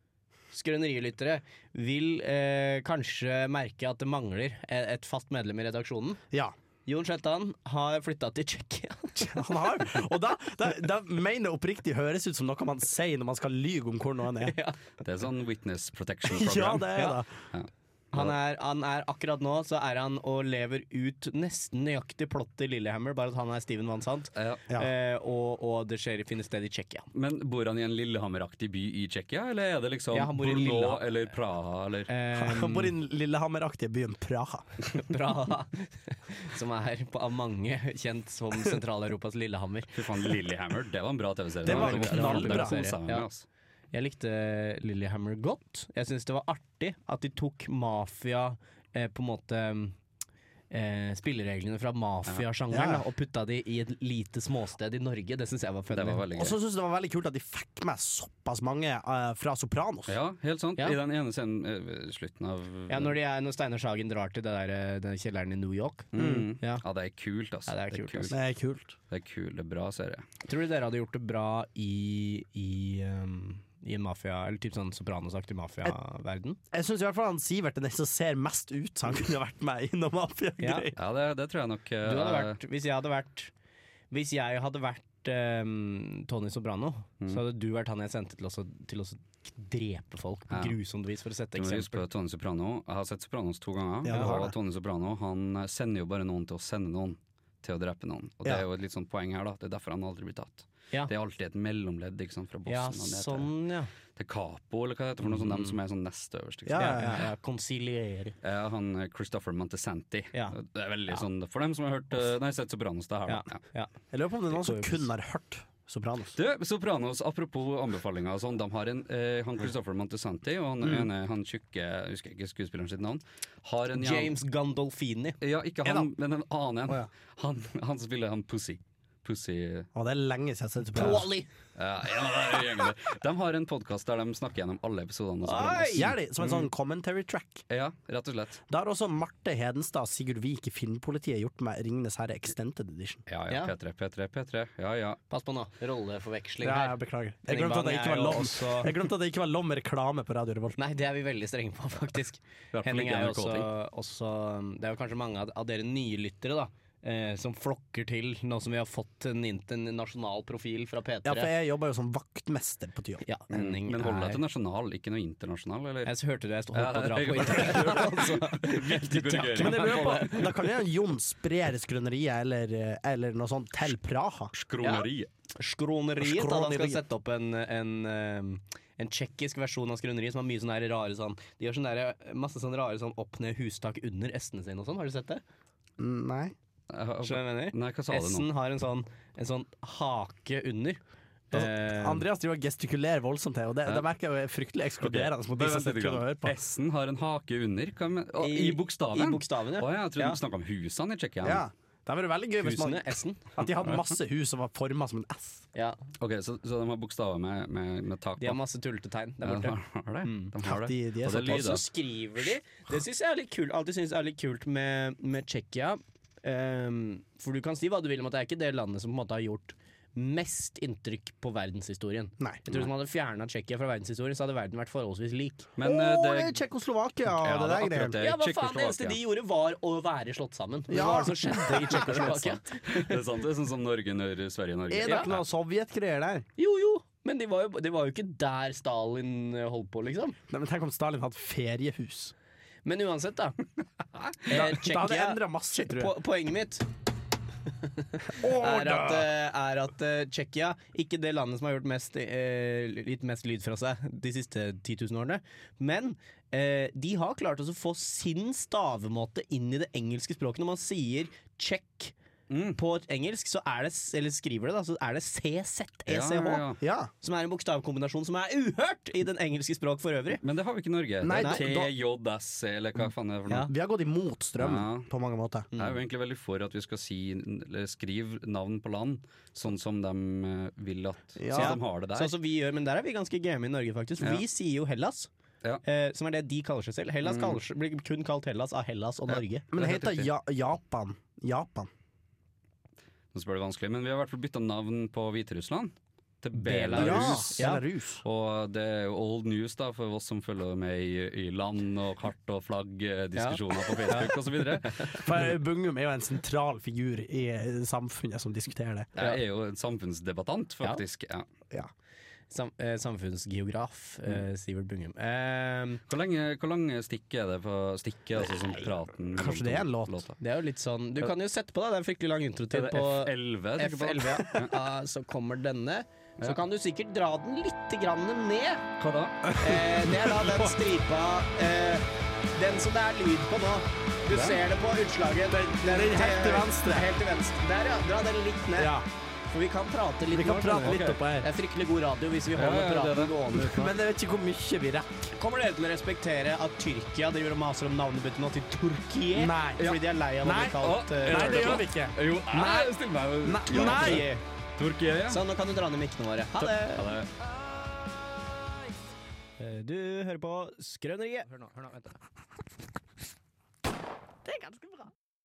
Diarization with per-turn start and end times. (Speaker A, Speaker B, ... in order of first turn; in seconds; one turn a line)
Speaker A: 0.5-6.2
Speaker A: 6.9-9.7
Speaker B: 9.2-14.6
Speaker A: 14.4-14.8
Speaker C: 15.0-18.4
Speaker B: 16.3-17.3
Speaker A: 18.1-27.1
Speaker C: 24.3-24.6
Speaker C: 27.1-32.1
Speaker A: 30.1-31.1
Speaker A: 32.1-32.9
Speaker B: 32.4-34.6
Speaker A: 34.9-40.2
Speaker C: 39.9-43.5
Speaker A: 41.6-43.3
Speaker B: 41.6-42.7
Speaker A: 43.9-50.0
Speaker A: 50.7-56.2
Speaker B: 52.7-53.0
Speaker C: 55.9-56.5
Speaker B: 56.3-60.1
Speaker C: 60.1-63.1
Speaker A: 62.9-66.8
Speaker C: 66.1-68.4
Speaker B: 66.1-66.5
Speaker A: 67.7-68.3
Speaker B: 68.3-69.0
Speaker C: 69.1-70.2
Speaker A: 70.4-76.6
Speaker B: 76.7-81.0
Speaker A: 80.6-80.8
Speaker C: 81.0-82.6
Speaker A: 82.0-83.5
Speaker A: 84.1-92.0
Speaker C: 90.5-90.8
Speaker C: 91.5-103.5
Speaker B: 94.0-94.5
Speaker A: 94.1-94.5
Speaker A: 102.7-103.9
Speaker C: 104.1-107.1
Speaker A: 105.3-105.8
Speaker B: 106.7-107.2
Speaker A: 106.8-108.3
Speaker C: 108.4-113.6
Speaker A: 113.3-113.9
Speaker B: 114.1-116.3
Speaker A: 114.5-115.0
Speaker C: 116.3-124.3
Speaker A: 123.9-125.4
Speaker C: 125.4-129.9
Speaker B: 125.8-126.1
Speaker B: 129.9-131.3
Speaker A: 130.9-131.5
Speaker C: 131.8-136.7
Speaker A: 135.4-136.1
Speaker B: 135.9-137.6
Speaker C: 137.7-138.6
Speaker B: 138.7-143.2
Speaker C: 143.3-145.2
Speaker A: 145.3-146.9
Speaker B: 146.6-150.8
Speaker A: 147.5-148.9
Speaker A: 150.8-161.5
Speaker C: 152.7-153.7
Speaker B: 161.2-163.3
Speaker A: 163.2-164.4
Speaker C: 163.5-166.2
Speaker A: 166.0-170.5
Speaker C: 166.7-170.5
Speaker B: 167.6-167.9
Speaker B: 169.6-174.5
Speaker C: 174.5-175.3
Speaker A: 174.8-185.4
Speaker B: 176.2-177.0
Speaker B: 186.0-186.5
Speaker C: 186.9-188.5
Speaker A: 187.2-191.0
Speaker A: 191.5-192.2
Speaker B: 191.5-196.6
Speaker C: 195.0-201.6
Speaker A: 198.4-200.4
Speaker B: 201.4-205.7
Speaker A: 202.6-203.5
Speaker C: 206.2-208.6
Speaker A: 208.4-210.5
Speaker C: 209.4-211.8
Speaker B: 210.6-211.9
Speaker A: 211.3-225.7
Speaker C: 225.8-226.6
Speaker B: 225.8-228.2
Speaker C: 227.3-229.2
Speaker A: 228.2-233.2
Speaker B: 230.9-232.3
Speaker C: 231.9-235.4
Speaker B: 234.9-236.5
Speaker A: 236.6-240.4
Speaker B: 240.5-242.3
Speaker A: 242.8-243.6
Speaker C: 244.1-244.5
Speaker A: 244.4-246.8
Speaker B: 244.5-246.1
Speaker A: 247.8-262.1
Speaker B: 248.3-249.3
Speaker C: 262.5-262.8
Speaker A: 262.8-266.6
Speaker C: 266.1-266.8
Speaker B: 266.8-267.1
Speaker A: 267.2-270.4
Speaker C: 270.4-273.7
Speaker B: 271.2-271.9
Speaker B: 273.7-275.7
Speaker C: 274.6-275.1
Speaker A: 275.7-276.0
Speaker C: 275.8-282.3
Speaker B: 281.4-281.8
Speaker A: 281.5-285.3
Speaker A: 285.8-289.9
Speaker C: 287.2-287.6
Speaker B: 289.3-291.9
Speaker C: 289.8-290.3
Speaker C: 293.3-297.7
Speaker A: 296.5-297.8
Speaker B: 296.9-298.2
Speaker C: 298.2-305.3
Speaker A: 303.4-305.2
Speaker B: 305.2-309.1
Speaker C: 309.1-311.5
Speaker A: 312.5-316.0
Speaker C: 316.1-320.4
Speaker B: 318.5-318.8
Speaker B: 319.4-320.2
Speaker A: 320.4-328.9
Speaker C: 322.7-324.8
Speaker C: 329.0-329.5
Speaker B: 329.4-330.7
Speaker A: 329.6-338.9
Speaker C: 334.3-334.6
Speaker B: 335.5-337.1
Speaker B: 338.8-339.0
Speaker A: 339.5-343.9
Speaker B: 340.3-341.5
Speaker C: 340.8-341.2
Speaker C: 342.5-343.4
Speaker B: 343.6-345.3
Speaker A: 345.4-351.8
Speaker B: 349.3-354.3
Speaker C: 350.8-355.4
Speaker A: 353.7-354.4
Speaker A: 355.3-357.1
Speaker C: 356.8-357.3
Speaker A: 359.6-362.2
Speaker A: 364.4-365.1